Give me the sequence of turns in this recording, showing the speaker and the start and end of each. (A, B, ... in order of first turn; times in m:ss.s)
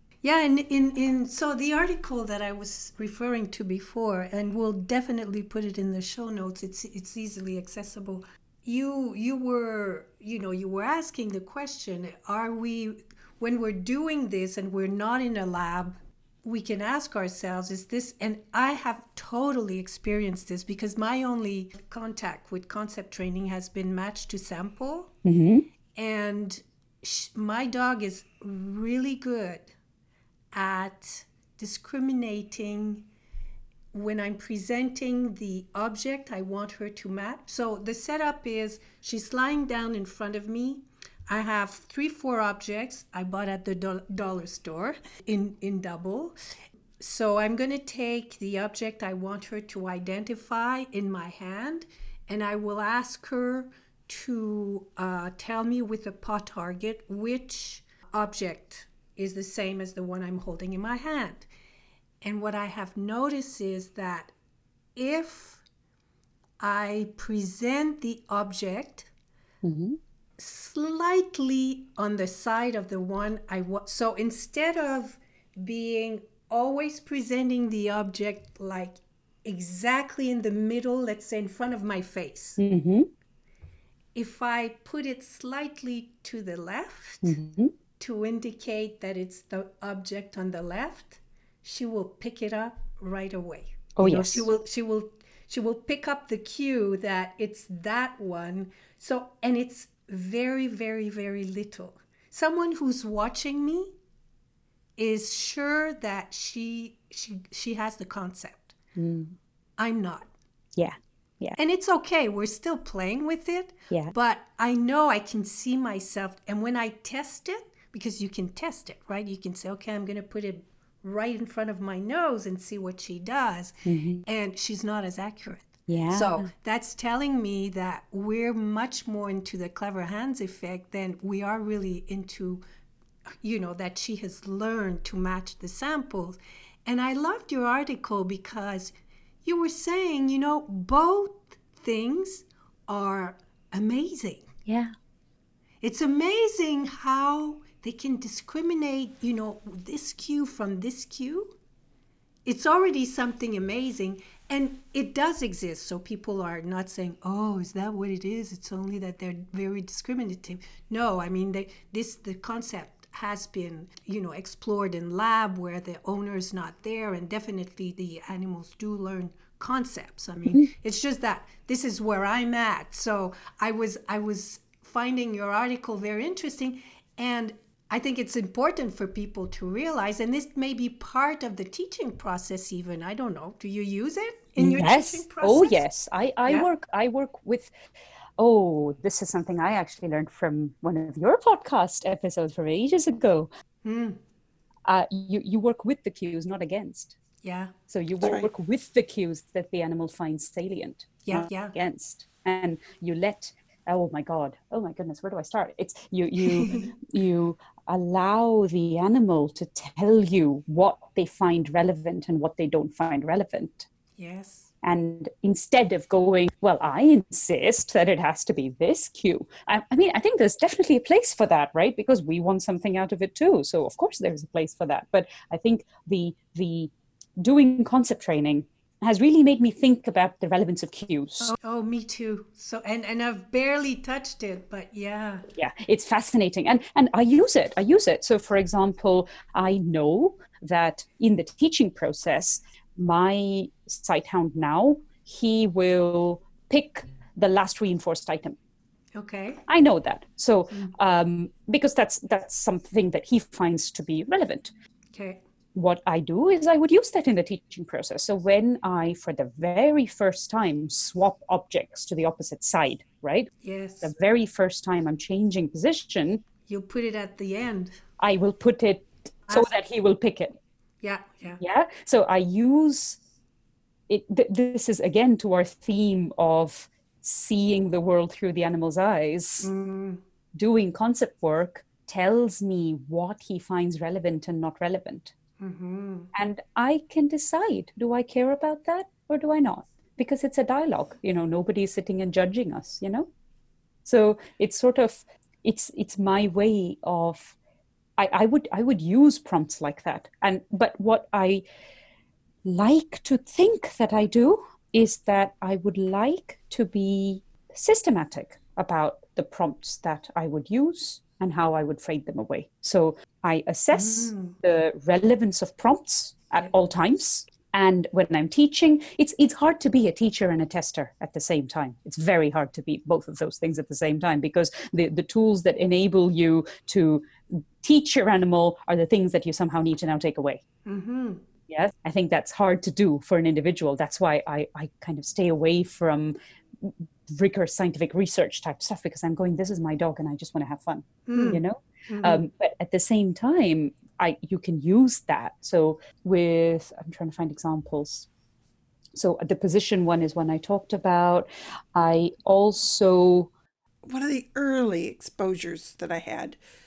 0:00.2-0:25.1 A
0:25.2-0:25.7 B
0:26.0-0:29.7 A
0:30.5-0:33.1 A
0:33.9-0:46.4 A
0:47.0-1:01.5 A
1:02.2-1:04.3 A
1:05.0-1:05.6 A
1:06.6-1:09.1 A
1:09.6-1:10.0 B
1:10.4-1:22.6 A
1:22.6-1:23.1 B
1:24.2-1:27.4 A
1:27.2-1:27.7 B
1:28.0-1:43.9 A
1:34.0-1:34.5 B
1:45.0-1:48.7 A
1:49.0-1:49.4 B
1:49.8-1:50.3 A
1:50.8-1:51.6 B
1:51.6-2:12.6 A
2:03.9-2:04.2 B
2:05.9-2:06.5 B
2:13.4-2:18.9 A
2:19.4-2:24.5 A
2:24.7-2:24.9 B
2:25.8-2:31.6 A
2:32.4-3:05.8 A
3:04.6-3:07.7 B
3:08.4-3:13.5 B
3:13.8-3:14.2 A
3:14.9-3:17.2 B
3:17.4-3:17.7 A
3:17.9-3:33.9 B
3:18.2-3:18.5 C
3:21.2-3:21.8 A
3:26.4-3:26.9 A
3:34.2-3:34.7 A
3:34.8-3:51.6 B
3:51.4-3:55.5 A
3:55.6-4:08.6 B
4:09.2-4:09.6 A
4:09.7-4:14.7 B
4:15.1-4:15.4 A
4:15.7-4:23.5 B
4:23.6-4:24.1 A
4:24.0-4:26.4 B
4:26.7-4:28.0 A
4:28.2-4:30.6 B
4:31.0-4:31.6 A
4:31.6-4:33.2 B
4:34.1-4:39.7 B
4:39.6-4:40.2 A
4:40.5-4:45.3 B
4:45.6-4:46.3 A
4:46.3-4:53.3 B
4:54.0-4:57.6 B
4:58.2-5:01.6 B
5:02.6-5:30.6 B
5:13.9-5:14.6 A
5:30.8-5:31.4 A
5:31.7-5:48.3 B
5:41.3-5:42.4 A
5:49.2-5:53.5 B
5:54.1-5:56.6 C